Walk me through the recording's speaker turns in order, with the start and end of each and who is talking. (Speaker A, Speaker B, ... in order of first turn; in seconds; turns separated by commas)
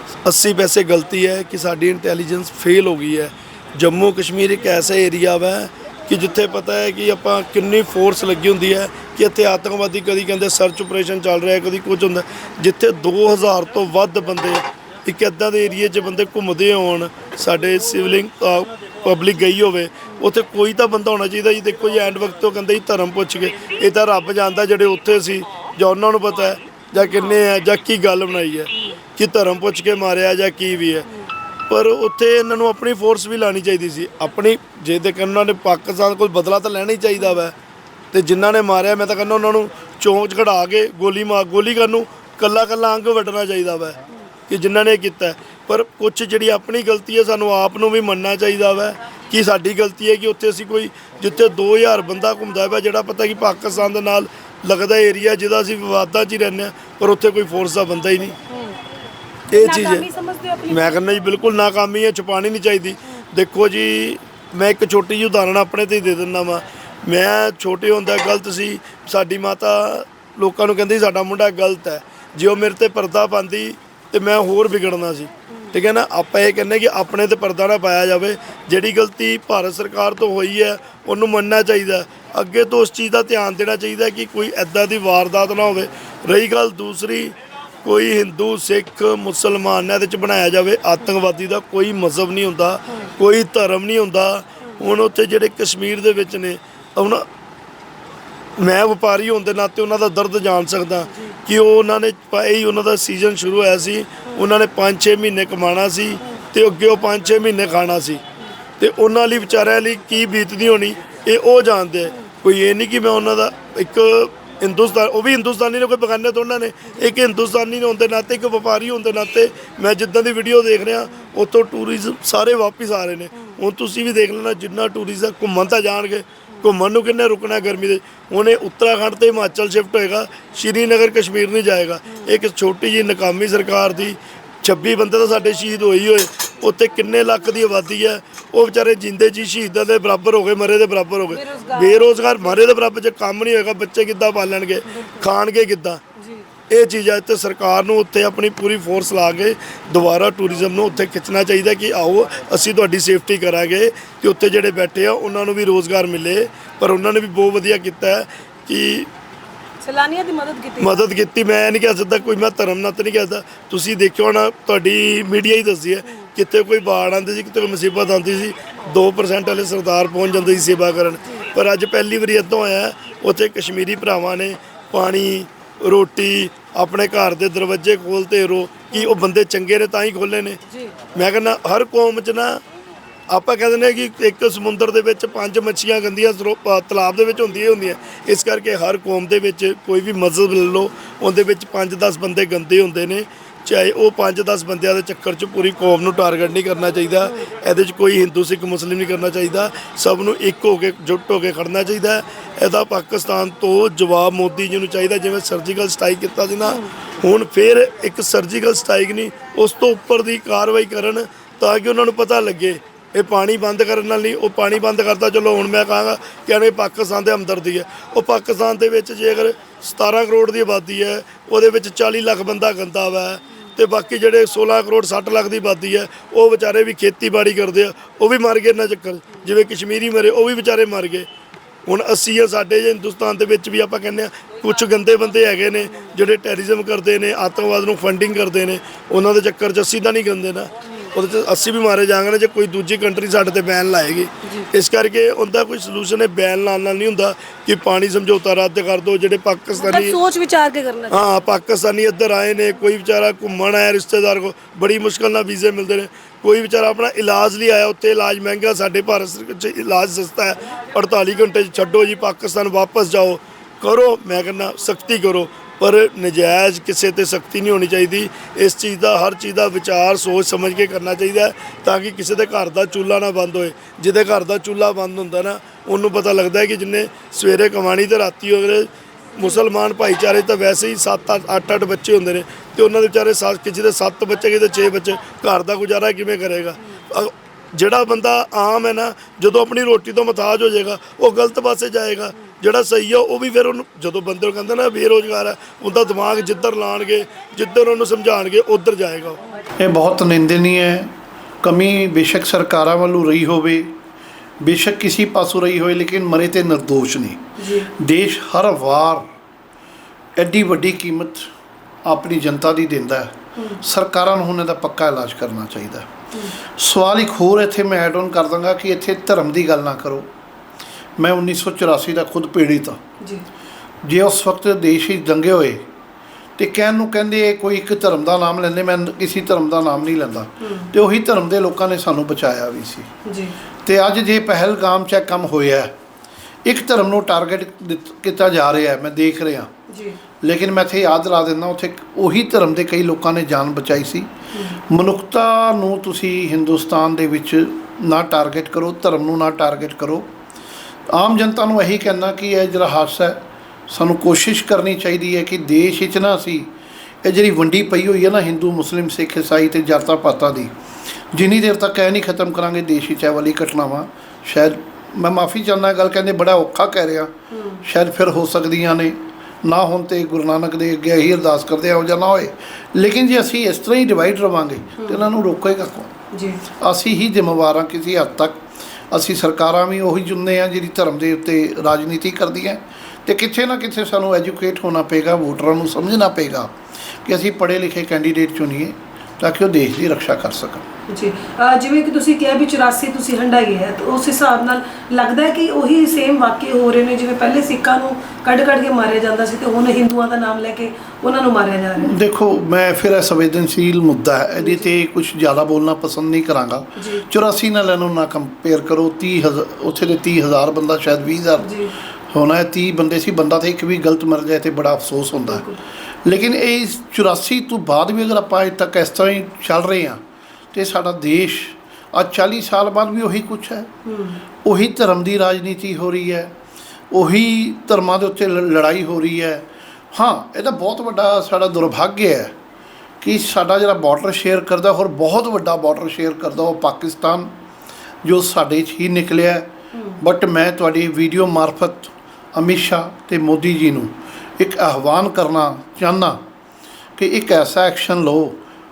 Speaker A: 0.2-31.1, Speaker A: 31.7-37.5, Speaker A: 38.1-58.4, Speaker B: 58.5-58.8, Speaker A: 59.5-60.1, Speaker B: 59.5-61.0, Speaker A: 60.7-87.3, Speaker A: 87.8-97.3, Speaker A: 98.6-108.2, Speaker A: 108.8-146.0, Speaker B: 141.3-142.6, Speaker B: 144.9-145.2, Speaker B: 146.2-146.5, Speaker A: 146.7-159.1, Speaker B: 159.8-161.0, Speaker A: 160.8-180.6, Speaker B: 178.9-179.2, Speaker B: 180.7-180.9, Speaker A: 181.1-182.6, Speaker A: 183.3-231.3, Speaker A: 231.9-250.2, Speaker B: 249.8-251.2, Speaker A: 251.1-299.4, Speaker C: 299.8-303.9, Speaker C: 304.6-307.4, Speaker B: 307.6-307.9, Speaker C: 308.0-309.3, Speaker C: 310.4-311.5, Speaker C: 312.1-316.1, Speaker B: 313.6-313.8, Speaker C: 316.8-320.3, Speaker C: 321.2-323.0, Speaker C: 324.0-325.9, Speaker C: 326.6-333.1, Speaker B: 330.6-330.9, Speaker B: 333.2-333.5, Speaker C: 333.9-335.9, Speaker C: 336.6-339.7, Speaker B: 339.9-340.2, Speaker C: 340.4-344.3, Speaker B: 344.5-344.8, Speaker C: 344.9-350.3, Speaker C: 351.1-356.7, Speaker C: 357.2-360.7, Speaker C: 361.3-376.1, Speaker B: 367.5-367.8, Speaker B: 375.0-375.3, Speaker B: 376.3-376.6, Speaker C: 376.8-390.8, Speaker B: 391.1-402.1, Speaker C: 402.0-411.7, Speaker B: 404.6-404.9, Speaker B: 407.0-407.3, Speaker B: 411.6-411.9, Speaker C: 412.3-415.6, Speaker B: 415.5-415.8, Speaker C: 416.2-420.2, Speaker C: 420.7-423.9, Speaker B: 424.1-424.4, Speaker C: 424.6-426.5, Speaker C: 427.1-432.5, Speaker C: 433.2-437.5, Speaker C: 438.2-446.4, Speaker C: 447.2-448.6